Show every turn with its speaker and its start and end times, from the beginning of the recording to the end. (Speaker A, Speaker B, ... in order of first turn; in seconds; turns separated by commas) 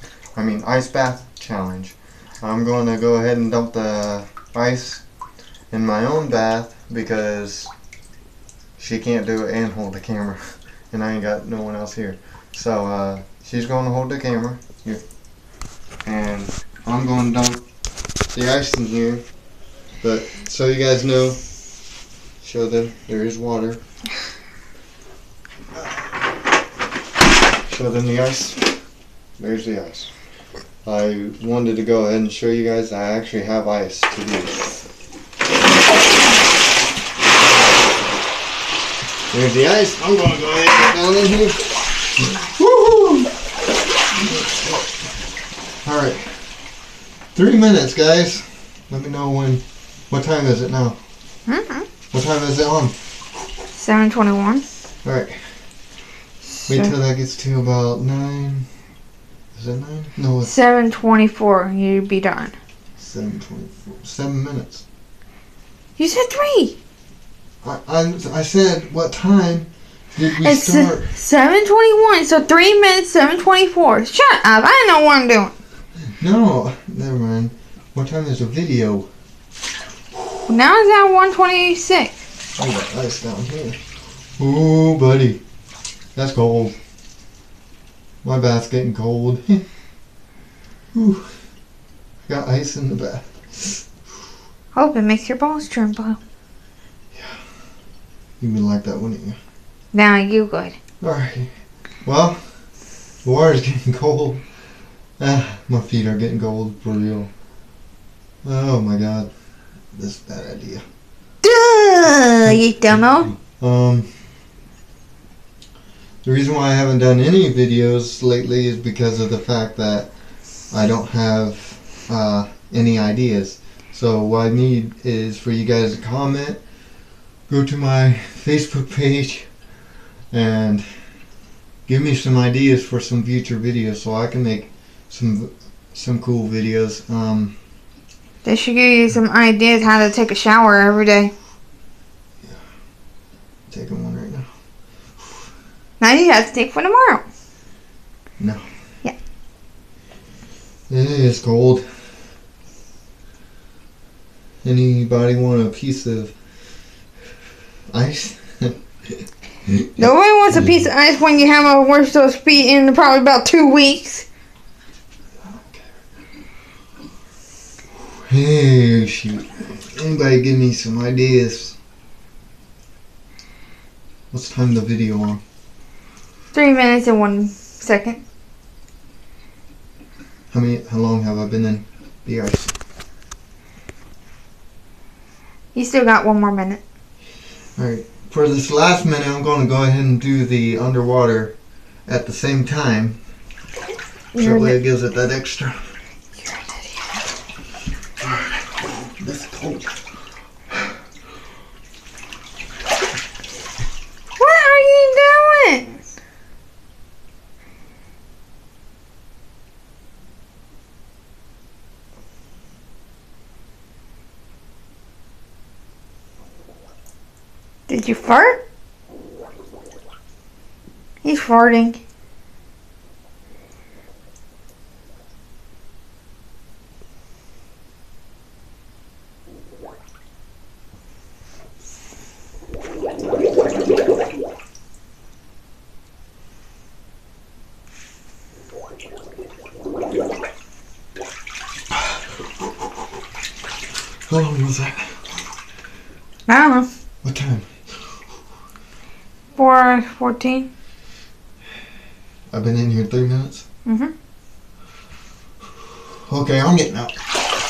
Speaker A: 0.3-5.0, Speaker A: 5.7-7.7, Speaker A: 8.8-15.0, Speaker A: 16.0-17.6, Speaker A: 18.3-19.2, Speaker A: 20.0-21.4, Speaker A: 22.4-23.8, Speaker A: 27.7-28.7, Speaker A: 29.4-30.1, Speaker A: 30.8-34.8, Speaker A: 39.3-43.3, Speaker A: 45.8-46.5, Speaker A: 47.3-51.0, Speaker B: 51.5-51.9, Speaker A: 52.1-52.9, Speaker B: 53.7-54.6, Speaker A: 55.0-55.4, Speaker B: 56.7-56.9, Speaker A: 56.7-58.7, Speaker A: 59.5-60.5, Speaker B: 60.4-62.5, Speaker A: 63.0-64.8, Speaker B: 66.0-66.8, Speaker A: 67.6-71.1, Speaker B: 70.4-75.5, Speaker A: 76.2-79.1, Speaker B: 80.5-82.1, Speaker A: 82.6-83.8, Speaker A: 84.4-85.4, Speaker A: 86.2-86.8, Speaker A: 88.2-89.7, Speaker A: 90.9-91.3, Speaker A: 92.2-93.8, Speaker B: 94.7-96.2, Speaker A: 97.1-97.4, Speaker A: 98.4-99.4, Speaker B: 99.9-100.8, Speaker A: 101.0-101.5, Speaker A: 102.0-102.4, Speaker A: 103.2-104.4, Speaker A: 105.2-107.3, Speaker A: 108.4-109.3, Speaker A: 109.9-110.8, Speaker B: 111.4-113.3, Speaker A: 112.4-114.1, Speaker A: 116.2-120.1, Speaker A: 120.7-126.6, Speaker A: 127.5-129.5, Speaker A: 130.3-131.0, Speaker A: 131.9-137.6, Speaker B: 138.4-141.3, Speaker A: 143.7-144.5, Speaker B: 146.0-147.2, Speaker A: 148.4-148.6, Speaker A: 150.9-151.8, Speaker A: 154.6-156.3, Speaker A: 157.9-158.8, Speaker A: 159.7-160.8, Speaker B: 160.0-164.3, Speaker A: 165.4-165.9, Speaker A: 168.2-171.8, Speaker A: 174.3-175.4, Speaker B: 176.5-178.2, Speaker A: 180.5-182.7, Speaker B: 185.7-186.8, Speaker A: 187.8-191.6, Speaker A: 192.1-193.2, Speaker B: 194.3-194.8, Speaker A: 194.4-195.9, Speaker B: 196.4-197.1, Speaker A: 198.2-199.9, Speaker B: 204.4-206.0, Speaker B: 217.9-218.6, Speaker B: 221.2-222.0, Speaker A: 244.3-245.3, Speaker B: 246.5-246.9, Speaker A: 247.2-247.7, Speaker B: 249.6-250.7, Speaker A: 252.5-253.6, Speaker B: 253.9-254.1, Speaker A: 256.2-257.2